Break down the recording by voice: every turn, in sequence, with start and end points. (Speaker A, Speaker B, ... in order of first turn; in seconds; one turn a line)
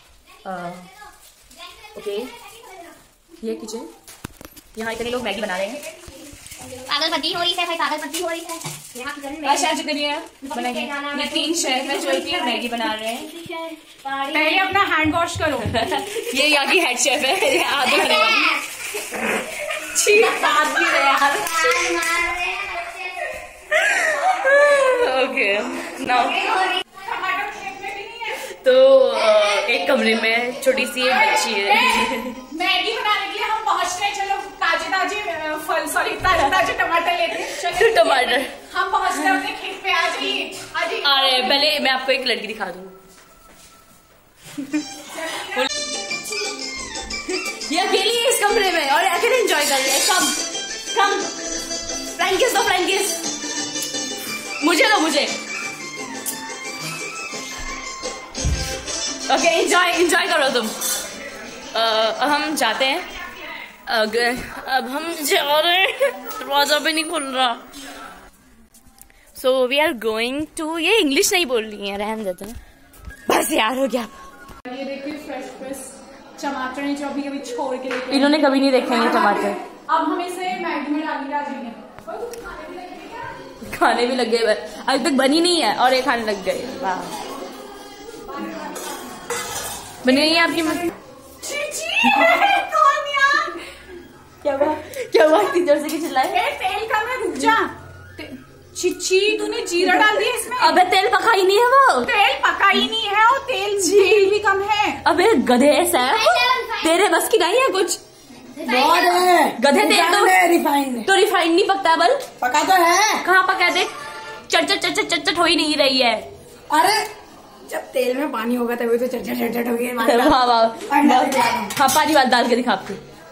Speaker A: 0.4-0.9
Speaker A: 1.9-2.3
Speaker A: 3.4-3.9
Speaker A: 4.7-5.8
Speaker B: 6.6-9.8
Speaker A: 9.4-13.3
Speaker B: 10.4-14.7
Speaker C: 14.3-15.7
Speaker A: 15.6-18.6
Speaker B: 17.4-18.7
Speaker A: 19.8-22.0
Speaker B: 21.3-23.4
Speaker A: 23.7-26.7
Speaker C: 26.9-28.4
Speaker A: 28.3-32.5
Speaker C: 31.1-41.6
Speaker A: 36.4-36.7
Speaker A: 37.4-38.5
Speaker A: 41.0-42.9
Speaker C: 45.1-45.6
Speaker A: 45.4-45.7
Speaker A: 47.4-51.3
Speaker A: 52.1-53.2
Speaker A: 54.6-55.3
Speaker A: 59.3-60.7
Speaker A: 61.7-63.1
Speaker A: 63.9-67.7
Speaker A: 69.3-72.6
Speaker A: 73.3-74.1
Speaker C: 74.7-83.3
Speaker A: 78.1-79.6
Speaker A: 83.6-87.1
Speaker C: 88.3-89.2
Speaker A: 90.0-90.9
Speaker C: 90.0-93.6
Speaker A: 92.0-92.5
Speaker A: 94.4-96.4
Speaker C: 96.3-100.8
Speaker A: 99.8-102.1
Speaker C: 102.0-105.0
Speaker A: 103.8-104.4
Speaker A: 105.0-108.0
Speaker B: 106.1-107.0
Speaker B: 108.3-109.4
Speaker D: 108.7-111.1
Speaker A: 109.5-110.5
Speaker A: 111.0-112.3
Speaker D: 112.4-113.2
Speaker A: 113.2-113.9
Speaker A: 114.5-116.2
Speaker D: 116.7-117.1
Speaker D: 117.7-121.7
Speaker A: 120.0-123.0